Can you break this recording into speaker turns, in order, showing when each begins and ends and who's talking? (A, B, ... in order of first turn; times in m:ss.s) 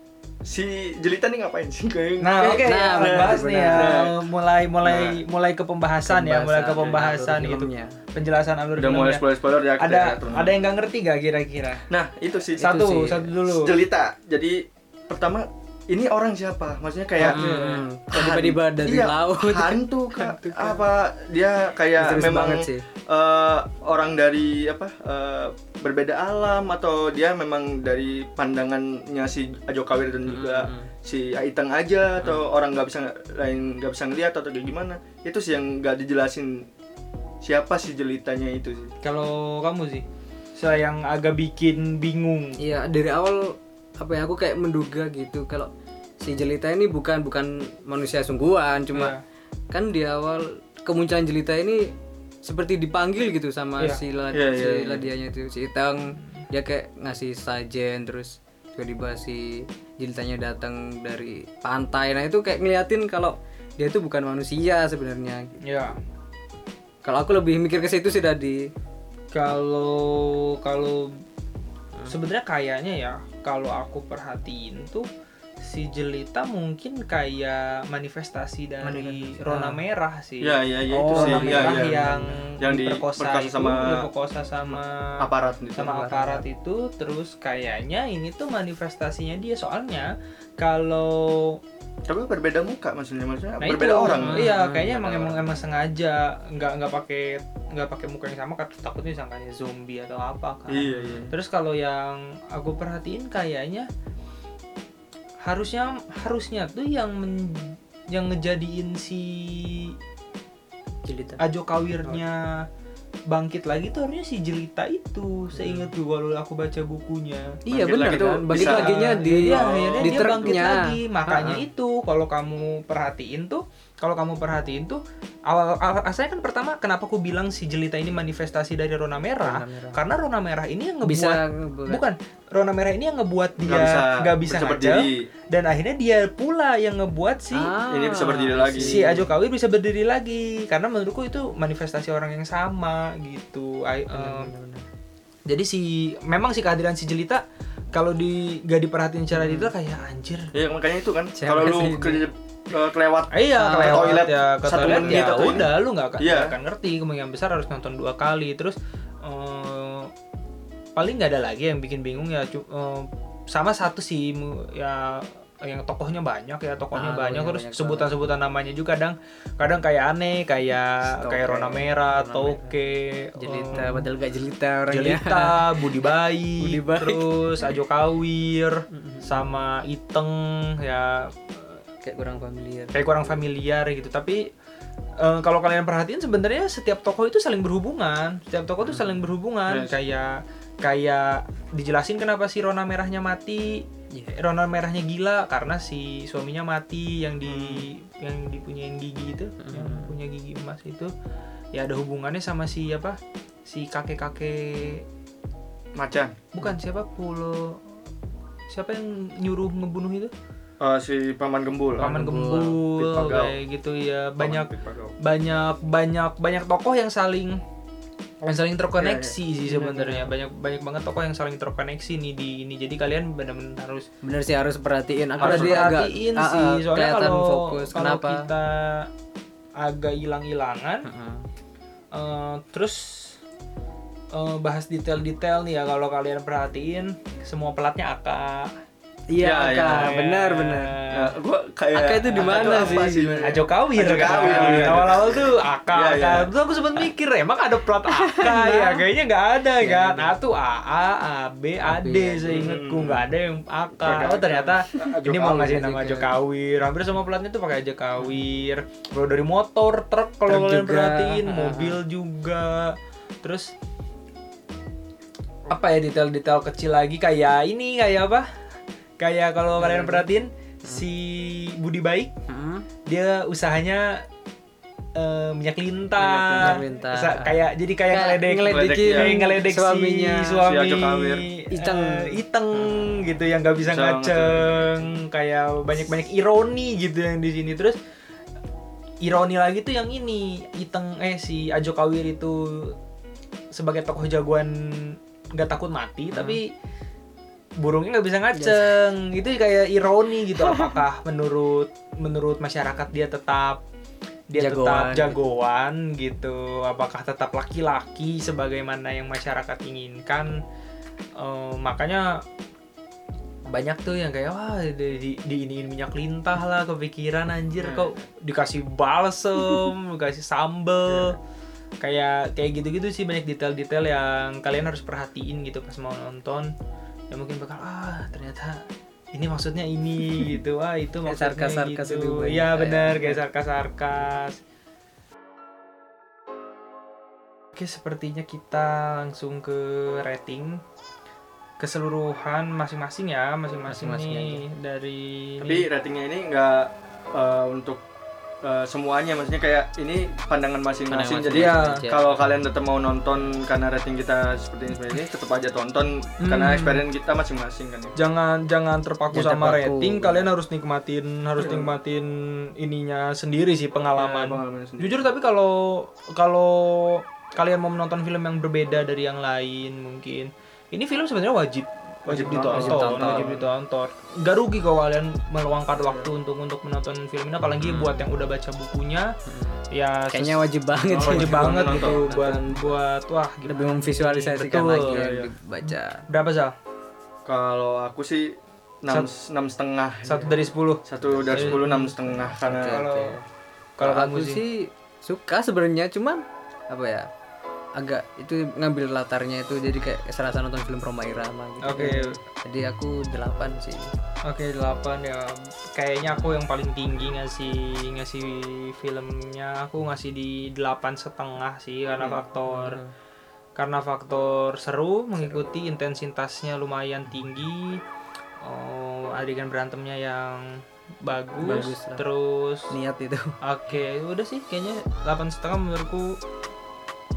0:00.4-0:04.0 A
0:02.2-0:11.9 B
0:02.6-0:04.2 C
0:04.8-0:05.2 A
0:06.0-0:08.0 C
0:08.8-0:10.6 A
0:11.9-0:12.8 A
0:12.6-0:13.8 B
0:12.6-0:13.3 C
0:13.4-0:36.7 A
0:17.2-0:20.8 C
0:17.2-0:17.7 B
0:22.0-0:22.9 C
0:30.3-0:30.9 C
0:37.4-0:38.9 A
0:39.0-0:40.0 B
0:40.6-0:42.6 B
0:42.6-0:49.1 C
0:48.9-0:49.2 B
0:49.7-0:51.9 C
0:52.4-1:05.6 C
0:54.3-0:55.1 A
1:05.6-1:06.0 B
1:07.0-1:08.7 C
1:09.3-1:11.2 B
1:12.1-1:15.1 B
1:15.6-1:20.6 B
1:18.8-1:19.8 C
1:20.4-1:24.1 A
1:20.9-1:22.4 C
1:21.1-1:31.6 B
1:24.6-1:25.9 A
1:25.8-1:26.4 C
1:32.1-1:35.4 A
1:33.6-1:43.9 B
1:34.2-1:35.2 C
1:40.7-1:41.4 A
1:40.9-1:41.3 C
1:45.4-1:50.0 B
1:51.0-1:51.4 C
1:51.4-1:52.7 B
1:53.3-1:57.6 B
1:55.6-1:55.9 C
1:57.7-2:01.7 C
1:57.7-2:00.6 A
1:58.5-2:17.7 B
2:09.4-2:10.0 C
2:11.0-2:12.0 C
2:13.6-2:15.3 A
2:17.5-2:19.3 C
2:17.9-2:19.1 A
2:18.8-2:24.5 B
2:24.1-2:24.9 C
2:25.5-2:27.4 B
2:27.9-2:30.5 B
2:29.3-2:29.7 C
2:30.5-2:36.6 A
2:31.4-2:32.3 C
2:33.3-2:40.1 B
2:33.6-2:34.2 C
2:34.8-2:35.1 C
2:41.0-2:54.1 B
2:46.9-2:48.1 C
2:51.0-2:57.8 C
2:54.9-3:01.8 B
2:58.9-2:59.4 C
3:02.0-3:03.3 C
3:02.9-3:04.5 B
3:05.2-3:21.1 B
3:08.8-3:09.3 C
3:09.7-3:10.0 A
3:14.1-3:14.4 C
3:17.4-3:17.9 A
3:19.6-3:20.2 C
3:21.7-3:25.0 B
3:26.0-3:26.4 A
3:26.5-3:27.8 B
3:28.7-3:30.3 B
3:30.8-3:32.1 A
3:32.0-3:32.8 C
3:32.0-3:34.7 B
3:32.9-3:33.6 A
3:34.4-3:35.1 A
3:35.2-3:37.6 B
3:38.4-3:44.1 B
3:39.0-3:39.3 A
3:39.6-3:40.3 C
3:44.2-3:48.5 C
3:45.4-3:45.9 A
3:45.4-3:49.1 B
3:49.8-3:51.1 B
3:51.0-3:51.4 C
3:52.1-3:53.4 B
3:54.3-3:58.7 B
3:59.3-4:01.0 C
3:59.4-4:00.1 A
3:59.8-4:01.3 B
4:01.1-4:06.5 A
4:01.9-4:03.6 C
4:02.3-4:23.7 B
4:04.1-4:05.1 C
4:08.1-4:09.0 C
4:09.8-4:10.3 C
4:11.8-4:12.8 C
4:12.5-4:13.3 A
4:14.0-4:15.8 A
4:15.5-4:16.3 C
4:18.2-4:18.5 C
4:20.5-4:22.0 C
4:25.7-4:28.5 B
4:29.2-4:32.3 B
4:29.8-4:30.3 C
4:32.5-4:32.9 C
4:33.1-4:34.2 B
4:35.2-4:48.0 B
4:36.2-4:36.8 A
4:36.4-4:40.6 C
4:38.7-4:39.4 A
4:40.6-4:41.5 A
4:41.7-4:43.1 C
4:43.8-4:44.9 A
4:49.2-4:53.0 B
4:53.7-4:56.7 B
4:56.3-4:56.6 C
4:57.8-5:03.8 B
4:58.6-4:59.0 C
5:00.6-5:01.0 C
5:04.5-5:10.6 B
5:04.6-5:05.4 C
5:11.4-5:12.4 B
5:13.7-5:21.4 B
5:17.8-5:18.1 A
5:22.0-5:26.7 B
5:27.3-5:34.6 B
5:31.3-5:33.4 C
5:37.8-5:40.8 B
5:41.8-5:45.9 B
5:43.9-5:44.6 C
5:45.6-5:48.0 A
5:48.6-5:58.2 A
5:51.1-5:52.4 C
5:51.5-5:52.0 B
5:56.4-5:57.1 B
5:58.2-6:19.3 B
5:59.3-6:00.5 C
6:01.6-6:01.9 A
6:04.2-6:05.3 A
6:12.3-6:13.6 A
6:12.5-6:13.7 C
6:16.0-6:16.3 A
6:17.8-6:18.3 C
6:19.5-6:23.0 C
6:19.9-6:26.8 B
6:21.1-6:22.2 A
6:23.7-6:26.2 C
6:25.1-6:25.5 A
6:27.5-6:33.0 A
6:30.3-6:33.4 B
6:31.3-6:31.9 C
6:32.5-6:33.4 C
6:34.0-6:34.6 B
6:34.0-6:37.3 C
6:38.0-6:44.1 C
6:41.8-6:42.4 B
6:44.5-6:53.0 B
6:46.3-6:46.6 C
6:52.7-6:53.1 C
6:53.8-6:58.0 B
6:58.6-7:02.9 B
7:01.6-7:02.2 C
7:02.9-7:03.6 C
7:03.6-7:06.4 B